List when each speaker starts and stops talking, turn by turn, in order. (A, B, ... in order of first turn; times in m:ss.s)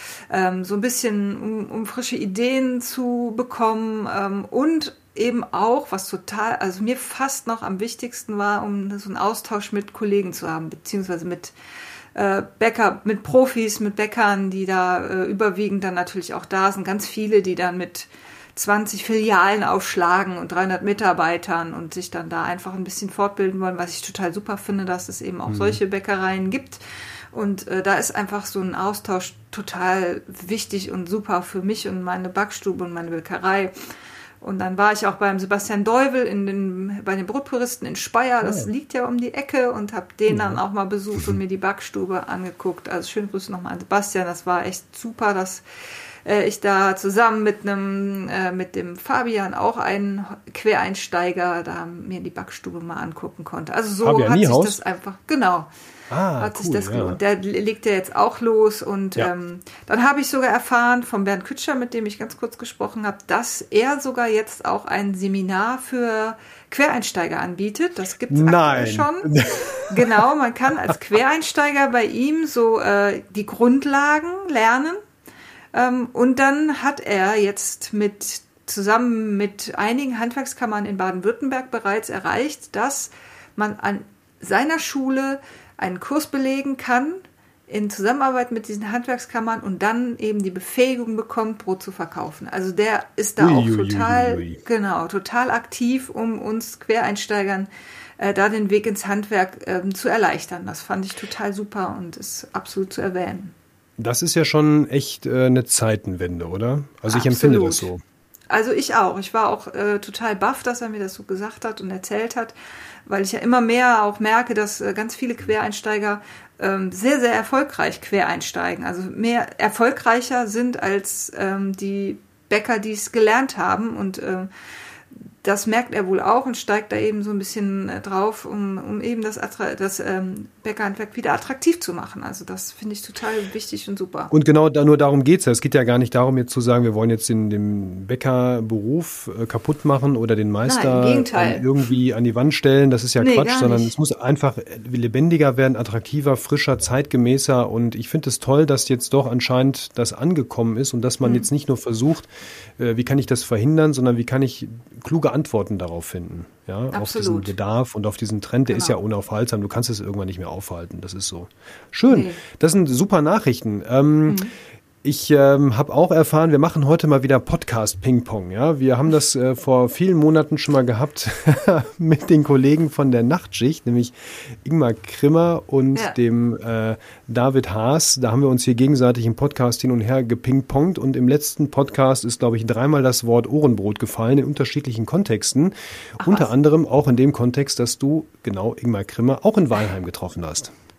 0:00.3-0:11.6 A
0:12.1-0:26.8 A
0:25.5-0:25.8 B
0:27.3-0:33.7 A
0:34.4-0:45.6 A
0:46.2-0:55.7 A
0:54.0-0:54.8 B
0:56.1-0:57.2 B
0:56.4-1:09.3 A
1:08.3-1:10.2 B
1:09.8-1:15.0 A
1:15.7-1:43.5 A
1:33.4-1:34.6 B
1:44.0-1:48.0 B
1:47.1-1:47.9 A
1:48.5-1:52.5 A
1:53.1-2:04.5 A
2:05.1-2:14.3 A
2:14.3-2:44.4 B
2:20.7-2:21.7 A
2:23.2-2:23.9 A
2:31.2-2:31.5 A
2:36.9-2:37.5 A
2:38.7-2:39.0 A
2:42.1-2:42.4 A
2:44.3-2:44.5 A
2:45.0-3:10.7 B
3:06.2-3:06.5 A